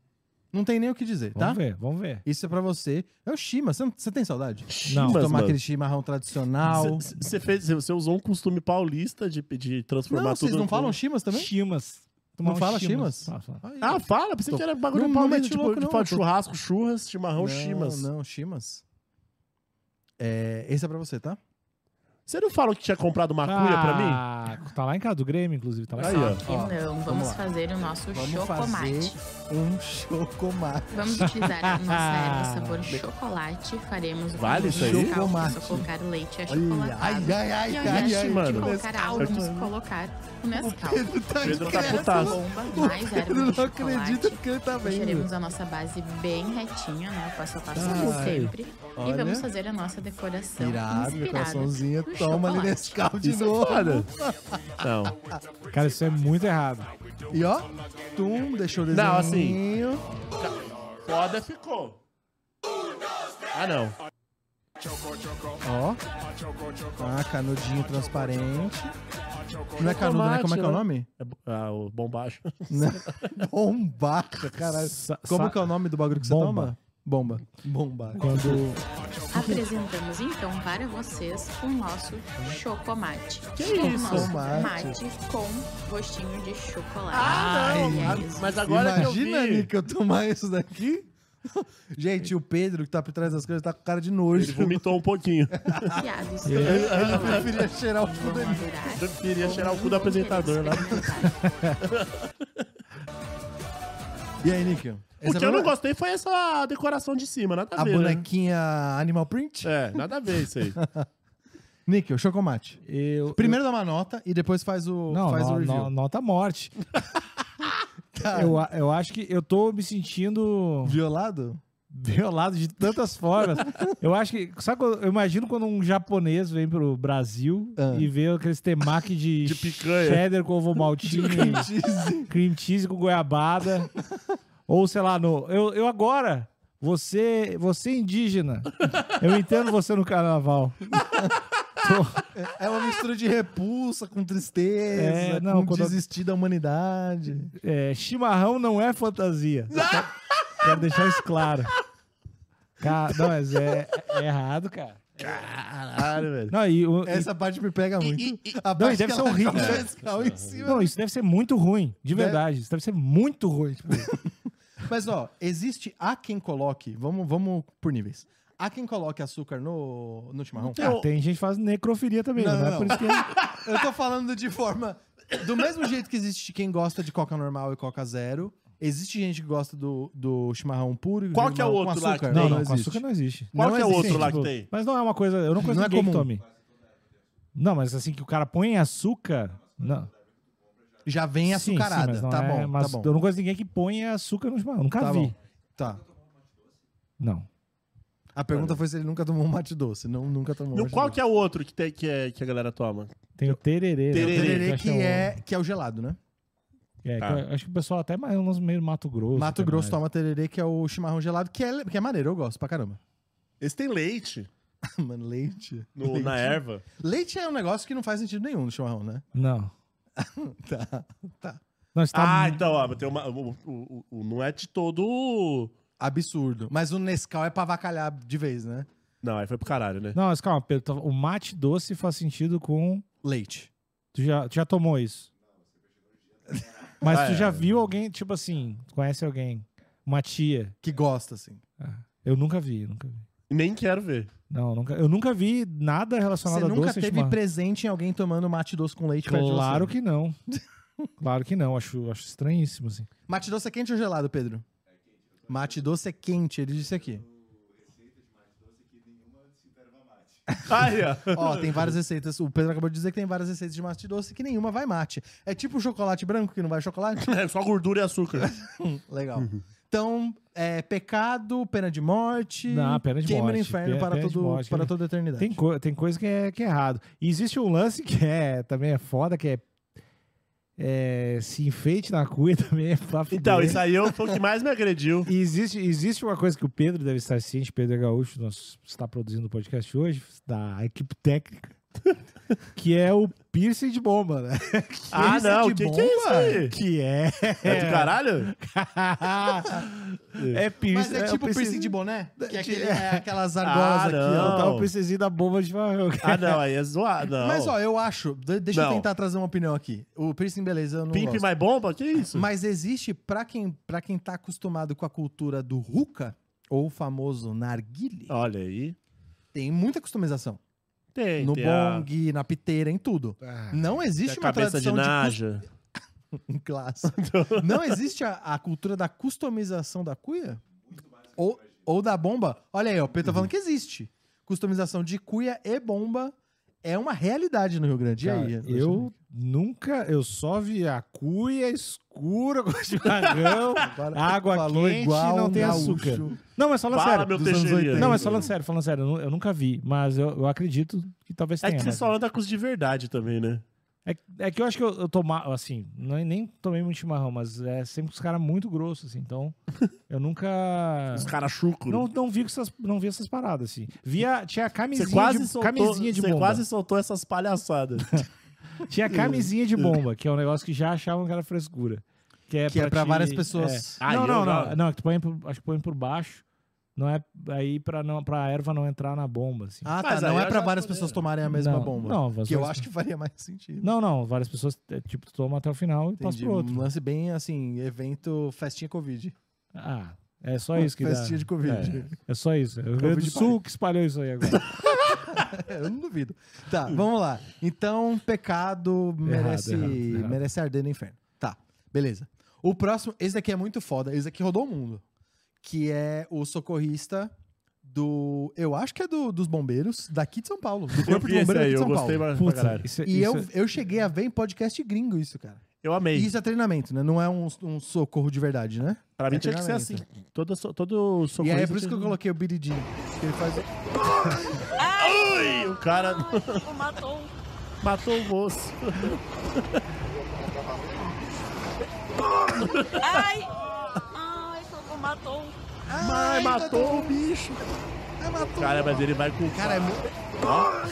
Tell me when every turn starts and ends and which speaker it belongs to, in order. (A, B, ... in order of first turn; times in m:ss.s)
0:00.5-0:01.6 A
0:01.4-0:02.2 B
0:02.2-0:07.1 A
0:04.7-0:05.6 C
0:04.9-0:05.2 B
0:06.7-0:11.0 C
0:10.1-0:11.5 A
0:11.3-0:13.6 B
0:12.4-0:16.2 A
0:13.8-0:18.1 C
0:17.4-0:18.8 A
0:20.2-0:21.4 A
0:22.3-0:24.2 C
0:23.4-0:26.4 B
0:26.0-0:26.4 C
0:26.4-0:27.4 A
0:26.5-0:29.2 D
0:28.1-0:31.3 A
0:30.9-0:53.0 D
0:31.4-0:32.8 B
0:34.4-0:35.2 C
0:34.7-0:35.9 A
0:36.5-0:39.8 A
0:37.8-0:39.4 C
0:40.5-0:45.3 A
0:41.4-0:42.4 C
0:47.7-0:49.5 A
0:50.6-0:55.4 A
0:53.2-0:54.1 C
0:54.8-0:55.2 C
0:55.7-0:56.9 B
0:57.3-1:00.0 A
0:58.9-0:59.6 C
1:00.4-1:02.0 C
1:03.5-1:04.0 C
1:05.6-1:06.0 A
1:07.0-1:08.9 A
1:09.8-1:11.1 A
1:09.8-1:13.4 C
1:12.7-1:18.8 A
1:14.5-1:16.7 B
1:18.2-1:18.8 B
1:19.3-1:28.6 D
1:23.6-1:24.9 C
1:23.6-1:25.0 A
1:27.1-1:29.7 C
1:27.2-1:34.9 A
1:34.4-1:36.0 C
1:35.6-1:36.0 A
1:36.0-1:41.5 D
1:36.4-1:36.8 B
1:36.6-1:38.8 A
1:36.6-1:37.5 C
1:39.0-1:41.2 C
1:41.8-1:42.6 C
1:44.4-1:45.7 A
1:45.2-1:48.3 C
1:47.8-1:50.0 A
1:49.6-1:50.8 C
1:50.8-1:51.1 A
1:51.9-1:52.8 A
1:52.9-1:53.6 B
1:53.3-1:55.9 A
1:55.1-1:56.8 B
1:58.1-1:58.6 A
1:58.3-2:01.0 B
2:00.8-2:01.6 A
2:01.9-2:11.7 B
2:07.8-2:08.1 A
2:09.4-2:10.2 C
2:11.0-2:12.3 A
2:12.3-2:13.9 B
2:14.7-2:21.0 B
2:21.0-2:21.3 A
2:21.8-2:22.2 B
2:22.3-2:27.5 A
2:24.9-2:26.0 B
2:27.6-2:29.9 B
2:29.7-2:31.1 C
2:30.6-2:31.7 B
2:32.8-2:35.4 B
2:35.2-2:36.5 C
2:36.5-2:37.3 B
2:37.0-2:40.9 A
2:38.0-2:38.6 C
2:38.8-2:39.9 B
2:39.5-2:40.6 C
2:40.7-2:44.1 B
2:42.1-2:42.4 A
2:44.0-2:44.3 A
2:44.8-2:51.0 A
2:50.8-2:51.0 C
2:50.8-2:53.3 B
2:52.4-3:04.4 A
2:53.3-2:53.6 C
3:01.3-3:02.6 C
3:02.3-3:06.4 B
3:03.6-3:04.7 C
3:05.6-3:06.3 A
3:07.6-3:10.1 B
3:11.0-3:13.1 A
3:11.5-3:15.4 B
3:15.0-3:16.1 A
3:17.2-3:17.5 B
3:18.4-3:21.2 A
3:18.5-3:18.8 C
3:20.7-3:23.5 C
3:23.4-3:25.3 B
3:24.1-3:24.7 C
3:24.1-3:26.2 A
3:27.0-3:30.0 B
3:29.4-3:33.0 A
3:33.6-3:34.5 C
3:34.8-3:39.2 A
3:36.0-3:36.8 C
3:39.4-3:39.7 B
3:40.2-3:41.6 A
3:42.0-3:42.6 B
3:42.1-3:45.7 C
3:46.0-3:48.9 A
3:49.2-3:50.2 C
3:50.2-3:53.0 B
3:53.2-3:53.7 A
3:54.1-3:55.3 B
3:57.0-4:00.8 B
3:57.0-3:57.6 C
4:00.8-4:01.6 A
4:01.8-4:03.3 B
4:03.5-4:04.3 C
4:04.5-4:07.4 B
4:06.4-4:09.9 A
4:09.2-4:10.4 B
4:10.5-4:11.0 A
4:11.2-4:13.1 B
4:13.3-4:14.6 A
4:15.4-4:17.2 A
4:20.5-4:27.3 A
4:20.7-4:21.9 C
4:27.2-4:28.5 C
4:28.4-4:35.6 A
4:29.4-4:29.6 C
4:32.7-4:39.6 B
4:40.8-4:43.8 B
4:43.3-4:45.3 C
4:45.3-4:51.8 B
4:52.8-4:55.4 B
4:55.1-4:56.8 C
4:55.1-4:56.7 A
4:56.7-5:03.2 B
4:57.6-4:58.5 C
5:00.4-5:00.6 C
5:00.9-5:04.7 A
5:03.6-5:04.9 C
5:04.3-5:06.6 B
5:06.2-5:07.8 C
5:07.4-5:11.5 A
5:08.7-5:09.1 C
5:11.1-5:12.5 C
5:12.3-5:18.4 A
5:18.3-5:19.0 C
5:19.5-5:20.6 A
5:21.2-5:22.1 C
5:21.4-5:25.4 A
5:23.5-5:23.7 B
5:24.2-5:25.6 C
5:26.3-5:39.2 A
5:27.1-5:28.0 C
5:38.2-5:52.1 B
5:43.7-5:46.4 A
5:46.9-5:48.5 C
5:47.3-5:48.5 A
5:51.6-5:53.6 C
5:54.1-5:59.6 B
6:00.1-6:01.3 B
6:01.2-6:02.0 C
6:01.9-6:06.6 B
6:05.0-6:08.3 C
6:08.8-6:16.4 B
6:09.1-6:09.9 C
6:12.7-6:14.0 A
6:14.0-6:14.8 C
6:17.0-6:19.9 B
6:19.8-6:23.9 A
6:20.0-6:21.2 C
6:21.5-6:22.9 B
6:23.8-6:26.9 B
6:26.2-6:29.4 A
6:29.8-6:34.8 B
6:30.8-6:32.1 A
6:31.6-6:32.0 C
6:33.0-6:33.6 A
6:35.1-6:45.0 A
6:39.3-6:40.4 B
6:45.6-6:47.3 A
6:47.8-6:52.3 A
6:51.0-6:52.9 C
6:52.4-6:53.5 B
6:53.0-7:00.0 A
6:55.8-6:56.3 C
6:59.2-7:02.1 C
7:01.4-7:03.7 A
7:04.8-7:07.3 E
7:04.9-7:06.7 C
7:07.8-7:09.8 C
7:12.6-7:13.2 C
7:13.0-7:15.6 E
7:15.9-7:17.5 A
7:16.0-7:17.6 C
7:18.2-7:20.0 A
7:18.6-7:20.7 C